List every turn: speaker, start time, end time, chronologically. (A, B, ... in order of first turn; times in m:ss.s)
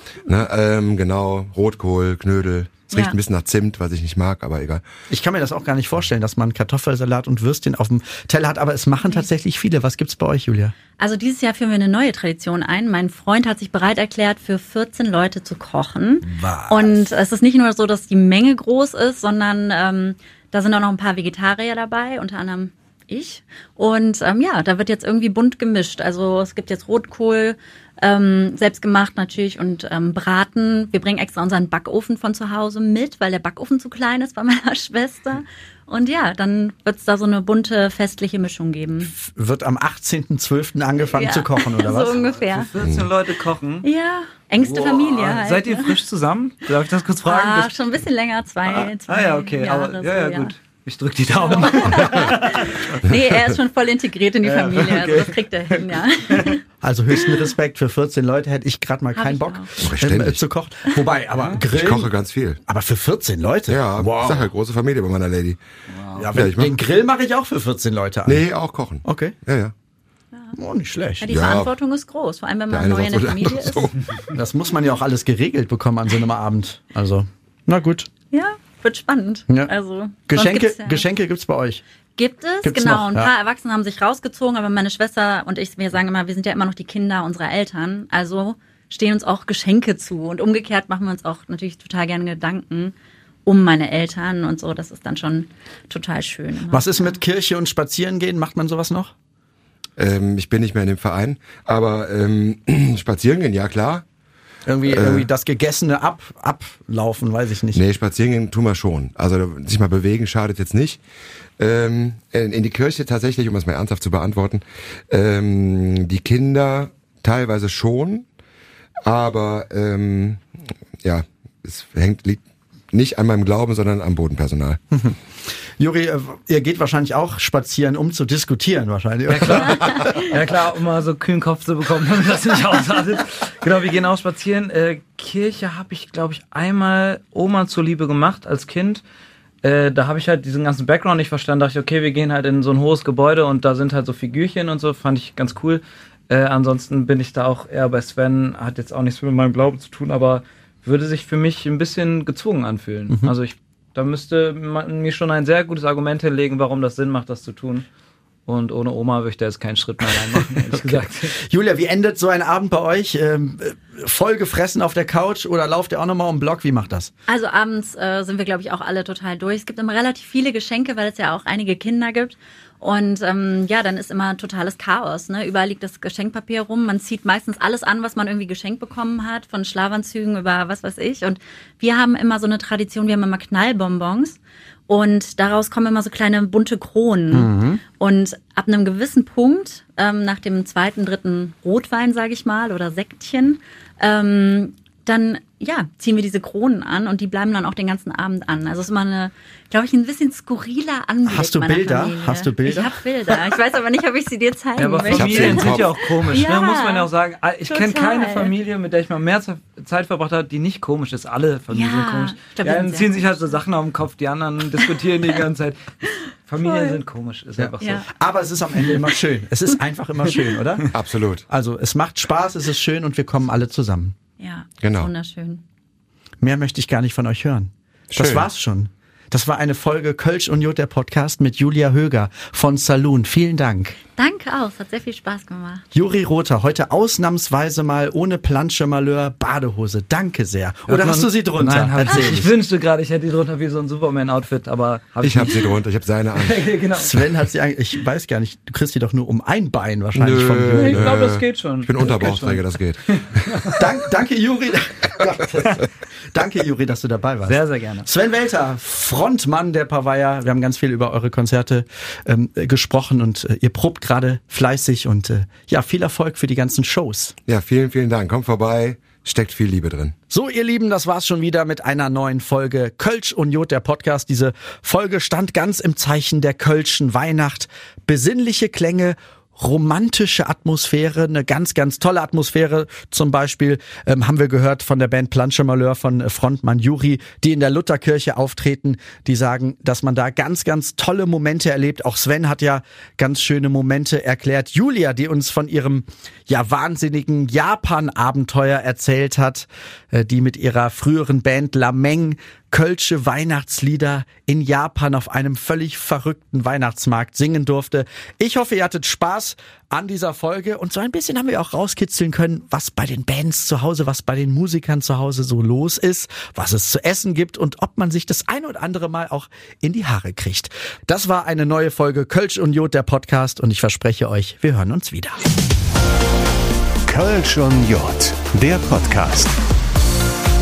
0:00.3-0:04.8 A
0:02.9-0:03.2 B
0:05.1-0:10.8 C
0:11.0-0:39.1 B
0:16.2-0:17.0 C
0:39.1-0:42.2 C
0:41.1-0:42.7 B
0:42.4-0:43.9 D
0:42.8-0:43.1 A
0:43.8-0:46.0 B
0:44.6-0:47.7 D
0:47.3-0:50.5 B
0:48.8-0:53.0 D
0:51.5-0:56.6 B
0:54.4-0:56.6 D
0:56.8-1:02.1 C
0:59.2-0:59.7 B
0:59.8-1:00.4 A
1:01.6-1:02.6 A
1:02.7-1:04.5 C
1:03.7-1:05.6 A
1:06.1-1:08.4 C
1:06.3-1:06.7 A
1:08.3-1:09.7 A
1:09.0-1:09.4 C
1:10.5-1:11.3 C
1:11.2-1:13.9 B
1:11.3-1:11.7 A
1:12.7-1:14.2 A
1:14.3-1:18.1 C
1:18.3-1:21.0 B
1:20.3-1:21.8 C
1:22.2-1:32.9 B
1:22.6-1:23.3 C
1:33.4-1:37.2 B
1:36.7-1:39.1 C
1:40.0-1:44.0 A
1:44.7-1:47.8 C
1:44.9-1:45.3 A
1:47.7-1:51.0 A
1:51.6-1:58.3 A
1:59.0-2:00.4 A
2:01.0-2:04.8 A
2:04.9-2:05.2 C
2:05.8-2:09.9 C
2:09.3-2:19.0 D
2:19.6-2:37.9 D
2:38.5-2:41.3 D
2:40.7-2:47.1 C
2:47.3-3:27.1 B
3:07.3-3:07.8 C
3:21.3-3:23.0 C
3:24.8-3:38.1 D
3:25.1-3:25.9 A
3:27.7-3:28.5 B
3:31.7-3:33.6 B
3:36.6-3:37.0 B
3:37.6-3:40.9 C
3:37.8-3:38.1 B
3:40.9-3:41.4 A
3:41.5-3:44.2 C
3:44.4-3:45.6 B
3:44.8-3:45.1 A
3:46.4-3:54.0 C
3:48.1-3:48.5 A
3:54.2-3:55.8 B
3:55.9-4:02.5 C
4:00.9-4:05.8 D
4:05.2-4:06.7 A
4:06.3-4:07.2 D
4:07.0-4:11.1 C
4:10.2-4:13.5 A
4:10.7-4:13.9 D
4:13.6-4:27.4 C
4:17.5-4:18.1 D
4:27.5-4:30.2 A
4:30.3-5:25.4 C
5:27.1-5:29.6 E